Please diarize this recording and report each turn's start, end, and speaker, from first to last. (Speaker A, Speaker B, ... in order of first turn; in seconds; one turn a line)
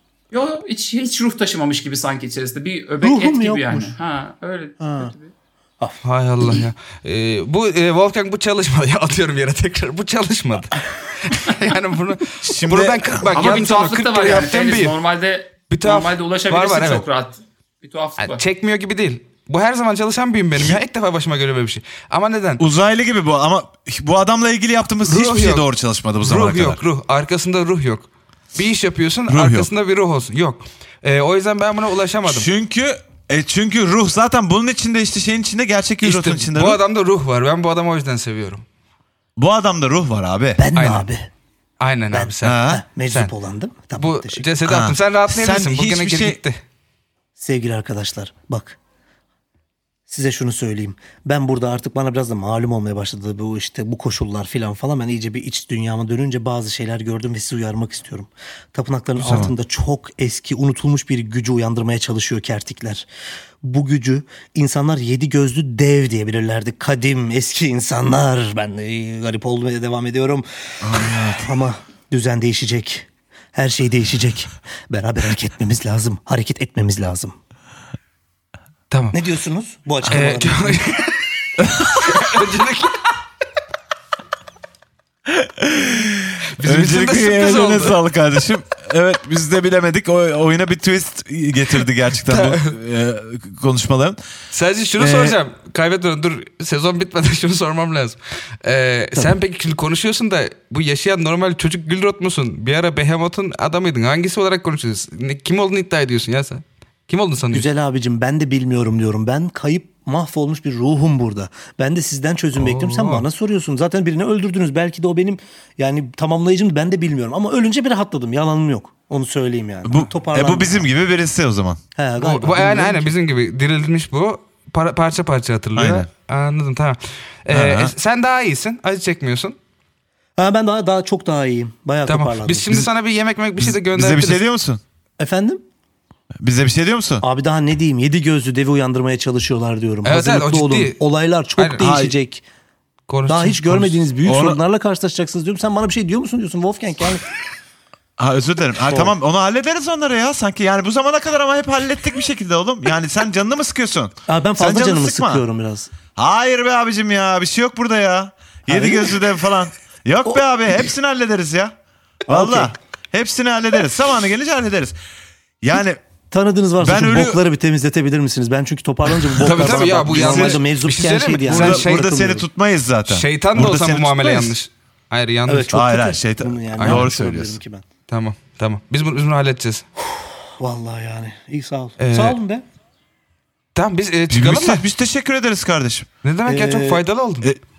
Speaker A: 0.3-5.3
Speaker B: 3.0-3.9
Speaker B: 4.8-5.1
Speaker B: 5.8-6.6
Speaker C: 6.0-14.9
Speaker D: 12.4-13.6
Speaker A: 13.3-18.4
Speaker C: 15.7-17.0
Speaker C: 18.2-22.6
Speaker D: 22.6-26.8
Speaker C: 25.0-25.7
Speaker C: 26.2-32.5
Speaker D: 29.3-29.7
Speaker D: 32.3-36.8
Speaker C: 36.0-38.6
Speaker D: 39.4-40.6
Speaker B: 40.6-41.3
Speaker C: 40.7-41.1
Speaker C: 41.8-43.3
Speaker B: 42.1-44.5
Speaker D: 42.4-42.8
Speaker C: 44.0-46.6
Speaker D: 44.6-46.4
Speaker B: 47.4-48.8
Speaker B: 50.1-63.1
Speaker C: 59.2-59.5
Speaker B: 63.6-77.3
Speaker D: 70.8-71.5
Speaker C: 78.9-79.2
Speaker B: 79.1-81.0
Speaker C: 80.1-83.0
Speaker D: 85.3-94.2
Speaker C: 86.6-88.0
Speaker C: 92.3-92.7
Speaker C: 94.5-107.7
Speaker D: 95.0-95.3
Speaker B: 107.5-120.9
Speaker C: 112.5-113.2
Speaker D: 119.8-121.8
Speaker B: 122.0-123.1
Speaker C: 122.2-129.6
Speaker D: 125.7-126.1
Speaker D: 127.5-127.9
Speaker B: 130.4-132.8
Speaker C: 132.1-134.4
Speaker D: 133.6-134.8
Speaker B: 135.2-135.6
Speaker D: 136.4-137.2
Speaker B: 137.2-142.4
Speaker C: 140.0-141.0
Speaker C: 141.6-141.8
Speaker D: 141.8-142.1
Speaker C: 143.1-144.1
Speaker B: 143.3-147.2
Speaker D: 144.2-144.6
Speaker D: 148.2-155.4
Speaker B: 148.8-149.1
Speaker B: 154.3-155.9
Speaker D: 156.2-161.7
Speaker B: 158.7-159.2
Speaker B: 162.3-162.7
Speaker D: 162.3-164.9
Speaker D: 165.6-166.0
Speaker B: 166.3-172.4
Speaker D: 166.8-167.4
Speaker C: 169.4-172.1
Speaker D: 169.5-170.6
Speaker D: 171.5-174.5
Speaker C: 173.1-175.7
Speaker B: 175.5-177.8
Speaker D: 175.7-177.6
Speaker C: 176.8-177.1
Speaker C: 178.1-179.8
Speaker B: 180.6-182.6
Speaker C: 182.0-182.4
Speaker C: 183.7-184.8
Speaker D: 184.3-186.1
Speaker C: 186.2-187.5
Speaker B: 186.4-187.0